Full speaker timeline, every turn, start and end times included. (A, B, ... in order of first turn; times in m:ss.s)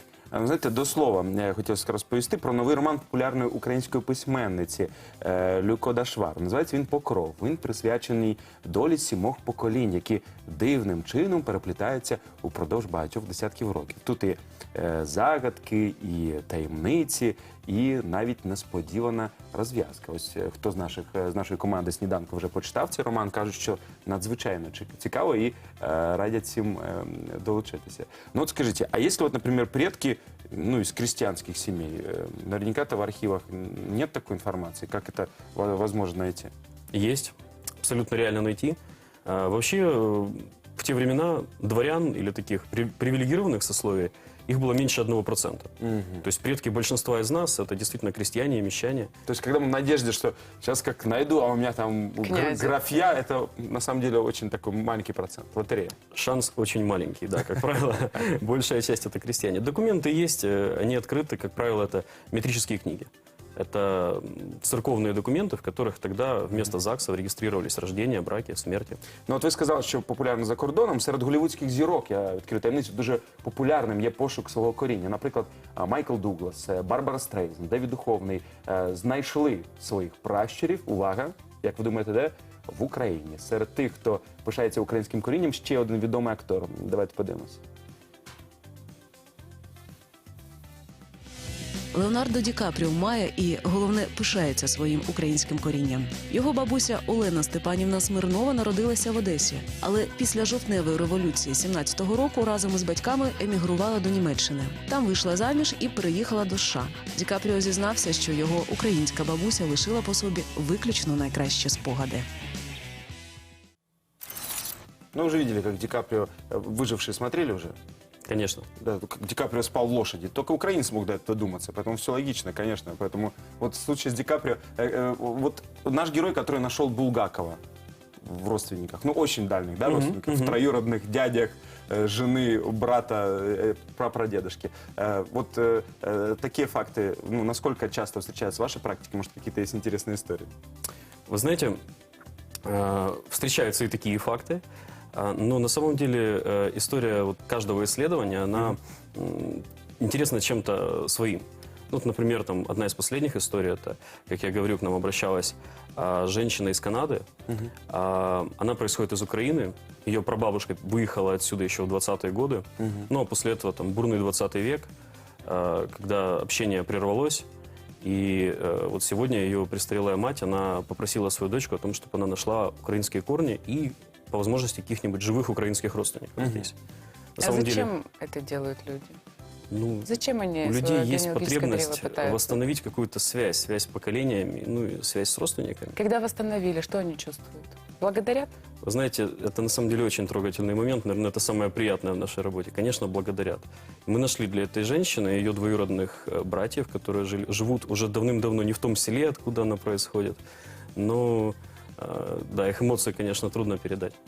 0:00.3-0:36.5 A
0:36.9-0:45.7 B
0:45.8-0:46.2 A
0:46.2-0:49.1 B
0:49.3-0:56.0 A
0:52.2-0:52.8 C
0:56.1-1:09.0 B
1:09.3-1:27.6 A
1:31.9-1:52.3 D
1:55.1-1:57.8 A
1:58.3-1:58.7 B
1:58.8-2:07.6 A
2:08.2-2:20.5 A
2:09.8-2:10.6 B
2:21.3-2:21.8 B
2:22.6-2:24.6 B
2:25.1-2:37.3 B
2:37.9-2:44.9 B
2:42.8-2:43.1 A
2:45.4-2:47.5 B
2:48.0-2:56.8 B
2:56.4-2:56.7 A
2:57.4-2:57.9 B
2:57.4-2:59.2 C
2:59.7-3:06.0 B
3:00.0-3:02.6 C
3:06.0-3:08.5 C
3:08.8-3:20.4 B
3:21.0-3:24.2 B